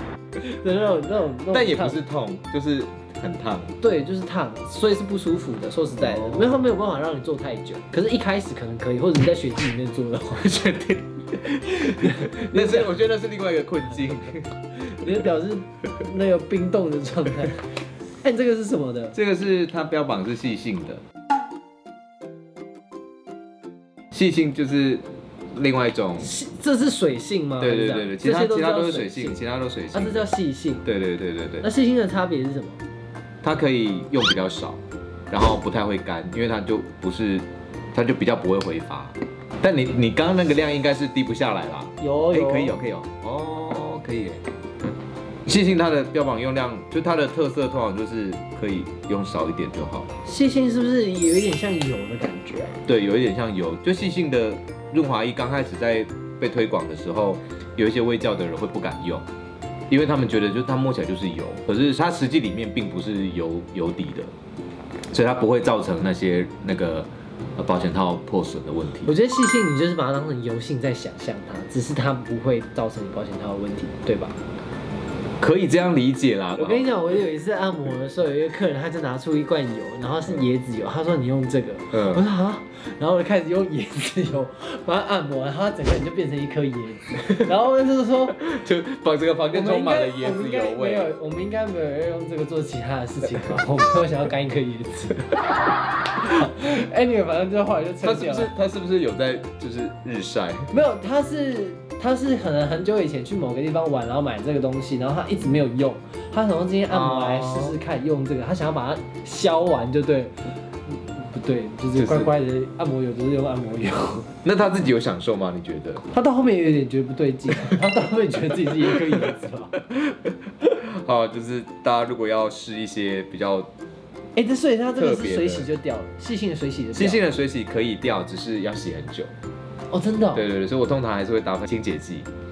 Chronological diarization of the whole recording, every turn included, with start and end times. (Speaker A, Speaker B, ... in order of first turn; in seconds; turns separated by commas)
Speaker A: 0.6-2.0, Speaker B: 1.5-3.8, Speaker A: 3.8-10.6, Speaker B: 6.0-6.6, Speaker B: 10.3-14.5, Speaker A: 11.8-12.9, Speaker A: 14.8-17.6, Speaker A: 18.2-19.1, Speaker B: 19.1-21.0, Speaker B: 24.1-26.4, Speaker A: 26.2-29.4, Speaker B: 27.6-30.3, Speaker A: 29.9-30.8, Speaker B: 30.8-31.7, Speaker A: 31.6-32.8, Speaker B: 33.4-44.4, Speaker A: 42.0-42.8, Speaker B: 45.5-50.1, Speaker A: 50.2-52.8, Speaker B: 52.9-59.2, Speaker B: 59.9-64.3, Speaker B: 65.1-69.1, Speaker A: 69.0-74.4, Speaker B: 75.4-77.0, Speaker A: 76.6-88.4, Speaker B: 81.9-82.2, Speaker B: 88.4-91.1, Speaker A: 89.5-95.3, Speaker A: 96.2-98.5, Speaker B: 98.0-100.7, Speaker A: 100.7-110.3, Speaker B: 106.9-107.8, Speaker A: 110.9-114.3, Speaker B: 112.0-112.3, Speaker B: 114.4-116.0, Speaker A: 116.1-119.8, Speaker B: 119.9-123.7, Speaker A: 124.3-127.3, Speaker B: 125.0-125.7, Speaker B: 126.9-129.3, Speaker A: 129.9-130.4, Speaker B: 130.3-132.3